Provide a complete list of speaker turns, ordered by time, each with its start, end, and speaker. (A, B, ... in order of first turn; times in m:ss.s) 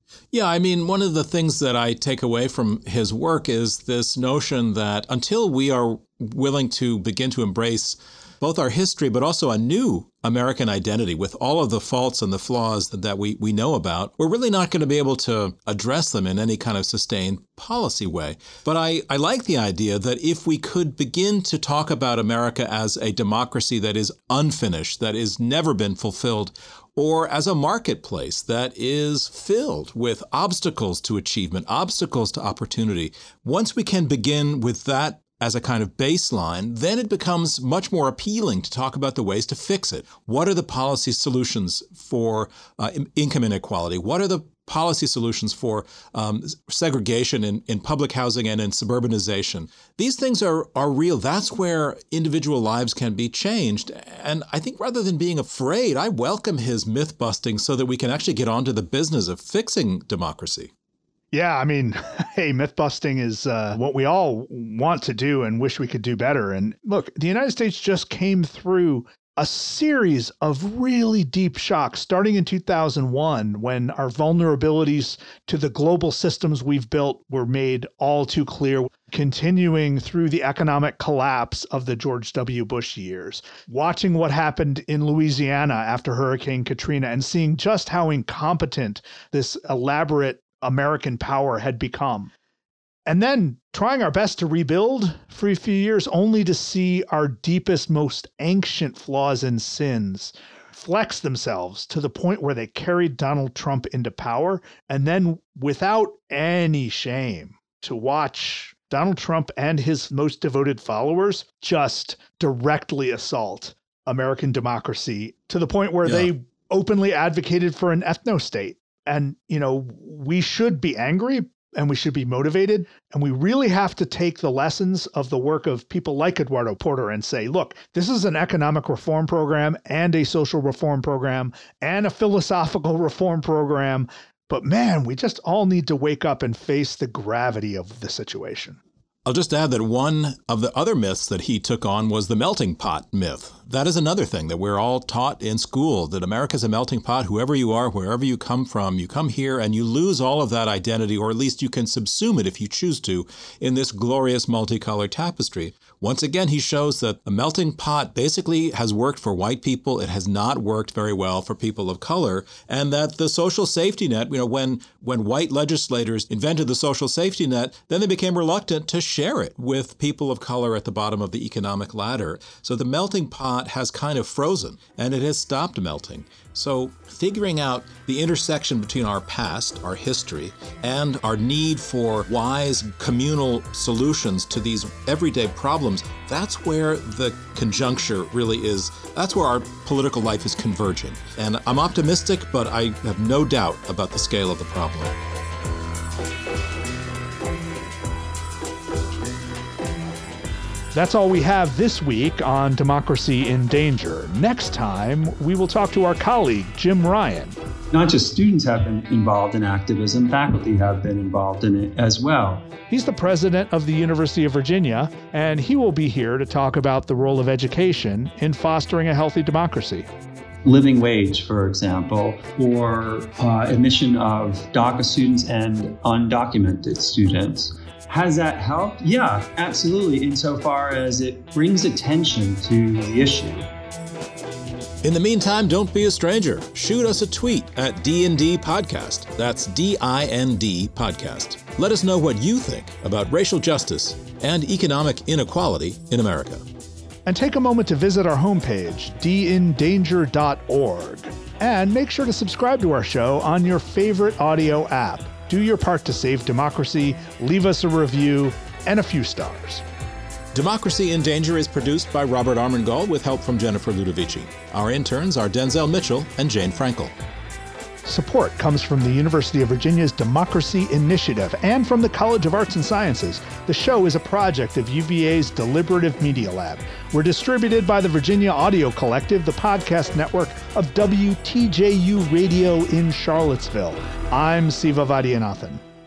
0:00.3-1:00.7 A
1:01.3-1:32.3 B
1:33.1-2:18.8 B
2:19.2-3:15.1 A
3:20.9-3:27.6 B
3:27.9-3:32.7 C
3:32.9-3:40.1 B
3:40.6-3:53.7 C
3:55.0-4:06.6 A
4:07.2-4:19.8 B
4:20.5-4:27.1 A
4:28.0-4:45.8 B